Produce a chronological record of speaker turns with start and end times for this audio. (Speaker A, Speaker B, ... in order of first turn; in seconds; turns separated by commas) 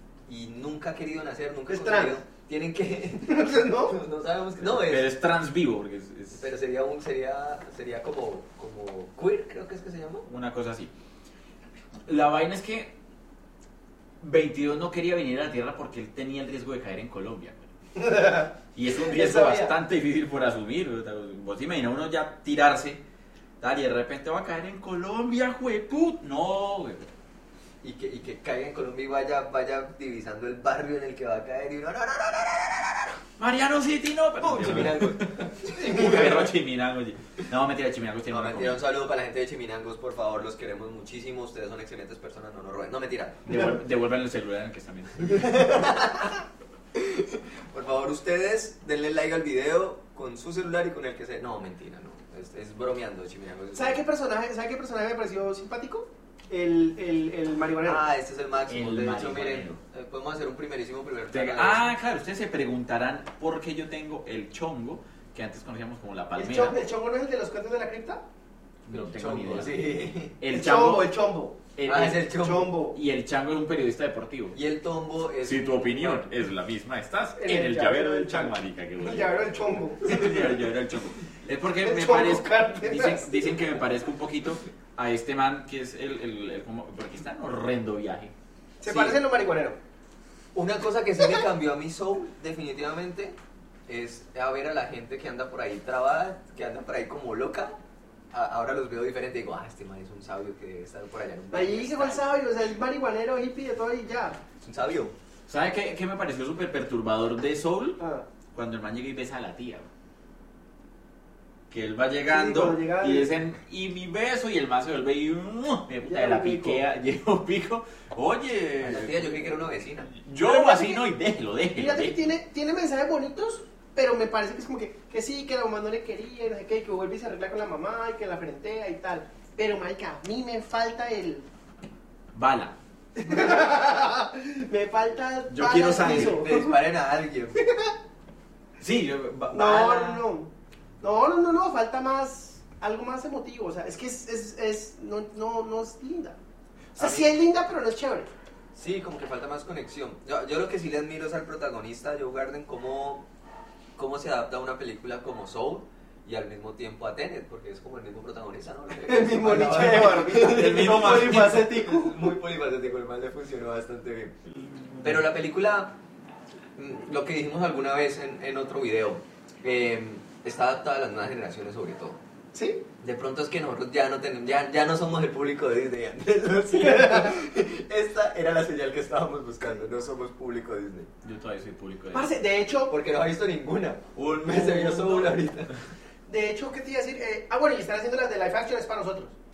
Speaker A: 0.3-5.1, Speaker B: 1.7-2.2, Speaker B: 3.2-4.0, Speaker C: 4.6-6.4, Speaker A: 6.3-10.3, Speaker C: 10.2-10.9, Speaker C: 12.1-12.9, Speaker C: 14.2-23.0, Speaker B: 18.1-18.4, Speaker B: 19.0-19.7, Speaker C: 23.6-27.1, Speaker A: 27.8-33.2, Speaker C: 33.4-38.8, Speaker A: 34.4-36.5, Speaker A: 38.3-43.4, Speaker C: 43.4-45.7, Speaker A: 45.3-54.0, Speaker B: 53.7-58.0, Speaker A: 57.8-61.9, Speaker C: 58.7-59.8, Speaker C: 61.3-66.8, Speaker B: 66.3-68.2, Speaker C: 68.8-71.1, Speaker A: 68.9-70.4, Speaker B: 70.5-71.6, Speaker C: 71.8-72.4, Speaker A: 71.8-72.8, Speaker B: 72.4-73.0, Speaker C: 72.9-74.6, Speaker A: 74.5-76.3, Speaker C: 75.4-88.3, Speaker B: 77.3-80.2, Speaker A: 80.3-80.5, Speaker B: 81.8-83.6, Speaker B: 88.8-89.8, Speaker A: 88.9-89.2, Speaker C: 88.9-89.2, Speaker A: 90.5-97.8, Speaker A: 98.3-102.2, Speaker B: 101.5-104.4, Speaker A: 104.6-105.1, Speaker C: 105.5-108.0, Speaker B: 108.0-108.2, Speaker C: 108.5-109.9, Speaker C: 111.7-122.3, Speaker B: 112.3-113.3, Speaker B: 116.0-116.8, Speaker A: 118.8-120.1, Speaker B: 120.4-121.0, Speaker B: 121.7-131.5, Speaker C: 132.3-132.8, Speaker B: 133.2-136.9, Speaker C: 135.5-136.5, Speaker A: 135.9-137.6, Speaker B: 137.5-137.9, Speaker C: 138.8-140.3, Speaker B: 139.5-140.5, Speaker B: 141.0-146.4, Speaker A: 147.0-147.3, Speaker B: 147.0-148.3, Speaker A: 148.7-153.3, Speaker A: 153.9-164.3, Speaker B: 159.0-162.1, Speaker C: 160.3-161.7, Speaker C: 164.7-165.1, Speaker A: 165.0-165.9, Speaker A: 166.8-172.2, Speaker B: 172.5-172.8, Speaker A: 173.0-181.1, Speaker B: 176.8-177.3, Speaker C: 181.2-182.3, Speaker B: 182.1-182.9, Speaker A: 182.9-185.8, Speaker C: 184.1-185.4, Speaker B: 186.3-189.3